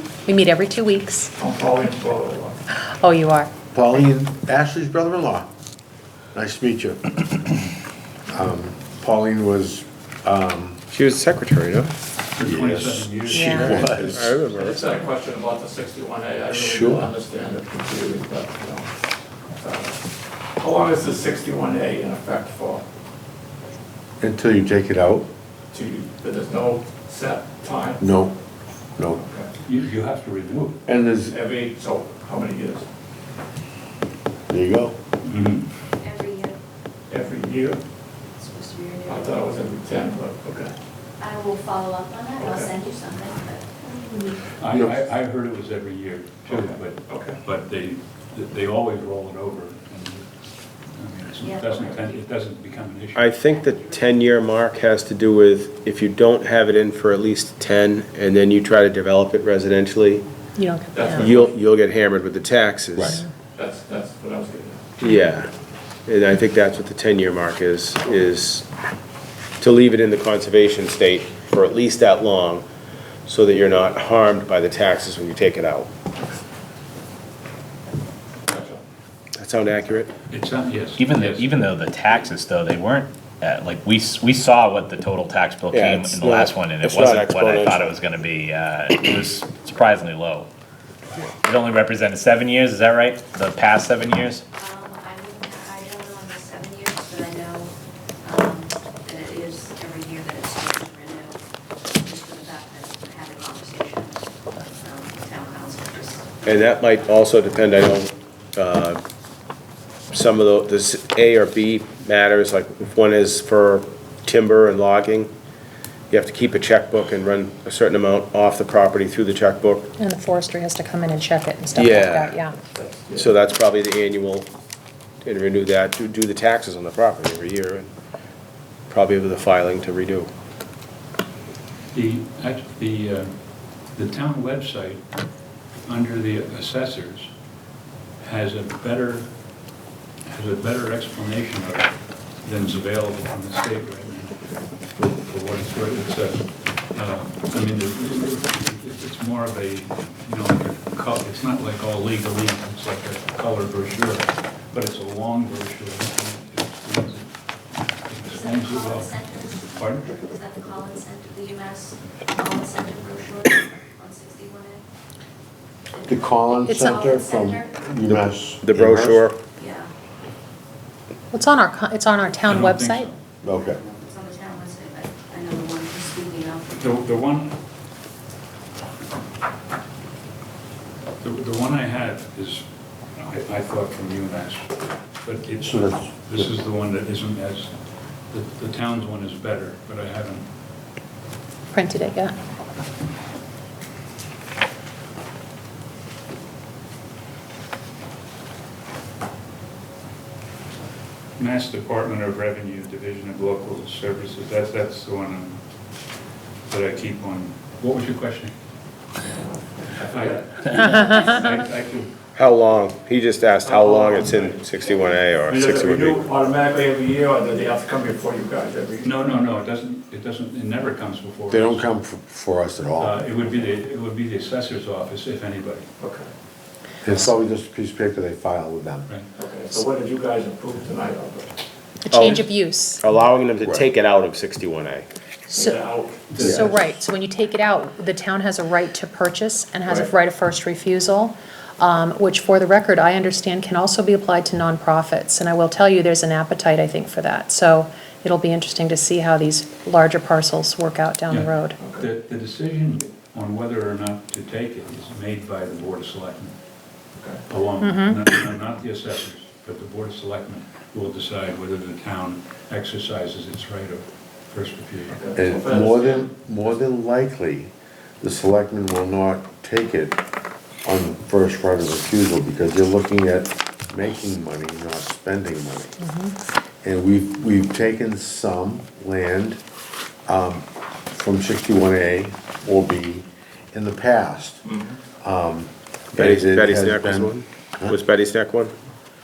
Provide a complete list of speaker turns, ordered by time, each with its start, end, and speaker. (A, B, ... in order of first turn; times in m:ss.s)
0:00.2-0:01.3 A
0:01.4-0:02.6 B
0:02.8-0:03.5 A
0:03.7-0:05.5 C
0:06.3-0:07.5 C
0:08.3-0:10.8 C
0:10.9-0:11.9 D
0:12.4-0:14.2 E
0:12.4-0:14.4 C
0:13.3-0:13.9 A
0:14.0-0:15.0 D
0:14.6-0:18.9 B
0:16.6-0:17.1 C
0:19.6-0:20.0 B
0:20.6-0:22.9 B
0:24.2-0:25.3 C
0:25.7-0:28.0 B
0:28.0-0:28.4 C
0:29.1-0:29.5 B
0:29.6-0:30.8 E
0:30.9-0:31.4 C
0:31.2-0:32.9 B
0:34.5-0:35.0 C
0:35.2-0:35.7 E
0:36.0-0:36.6 F
0:37.1-0:37.8 B
0:38.4-0:39.6 F
0:39.1-0:40.8 B
0:41.2-0:44.5 F
0:42.4-0:42.7 B
0:44.6-0:50.3 E
0:44.6-0:45.0 C
0:46.5-0:47.4 B
0:50.9-0:53.3 E
0:51.4-0:52.1 F
0:53.2-1:00.2 D
0:53.3-0:54.2 F
1:00.6-1:01.2 A
1:00.9-1:01.5 B
1:01.1-1:03.2 D
1:03.0-1:03.2 C
1:03.6-1:04.9 B
1:05.0-1:05.5 D
1:06.1-1:08.7 D
1:09.6-1:12.7 D
1:13.3-1:15.9 D
1:18.5-1:18.8 B
1:19.4-1:20.1 D
1:20.3-1:21.6 E
1:21.0-1:30.5 G
1:25.7-1:27.9 D
1:31.4-1:34.4 G
1:34.6-1:37.7 F
1:38.2-1:41.4 F
1:42.0-1:46.3 F
1:46.4-1:49.0 D
1:50.1-1:55.3 D
1:56.1-1:59.9 D
2:00.0-2:02.6 A
2:01.8-2:02.4 D
2:02.6-2:03.3 B
2:03.2-2:04.5 D
2:05.2-2:07.9 D
2:08.9-2:10.3 D
2:11.9-2:15.0 E
2:15.8-2:17.3 E
2:18.2-2:19.3 E
2:20.3-2:24.4 E
2:24.9-2:37.3 E
2:38.0-2:40.2 E
2:38.2-2:44.8 F
2:45.9-2:47.8 F
2:46.1-2:49.3 C
2:46.7-2:46.9 A
2:48.0-2:49.4 D
2:49.6-2:49.9 F
2:51.3-2:53.1 A
2:52.5-2:53.2 E
2:53.4-2:53.8 C
2:53.6-2:56.9 F
2:56.8-2:57.6 E
3:01.2-3:07.7 E
3:05.6-3:06.5 C
3:08.3-3:10.5 E
3:11.7-3:12.4 A
3:21.4-3:25.6 E
3:26.7-3:28.5 E
3:30.0-3:30.4 B
3:30.0-3:32.1 E
3:32.4-3:36.3 D
3:33.6-3:39.4 B
3:39.0-3:41.9 E
3:41.5-3:43.2 C
3:43.0-3:45.9 E
3:46.0-3:46.3 B
3:47.0-3:49.1 C
3:49.4-3:51.6 B
3:52.0-3:53.0 A
3:52.1-3:52.5 D
3:53.0-3:55.1 D
3:55.5-3:56.5 B
3:56.3-3:56.8 E
3:56.4-4:11.8 A
3:56.4-3:56.8 C
4:11.3-4:16.6 E
4:11.8-4:12.0 B
4:17.5-4:25.2 E
4:17.8-4:18.3 A
4:25.1-4:26.3 B
4:25.4-4:30.2 C
4:30.8-4:36.0 C
4:36.0-4:36.3 A
4:36.8-4:39.6 C
4:40.3-4:44.6 C
4:44.6-4:45.0 B
4:45.2-4:48.0 C
4:46.2-4:48.7 D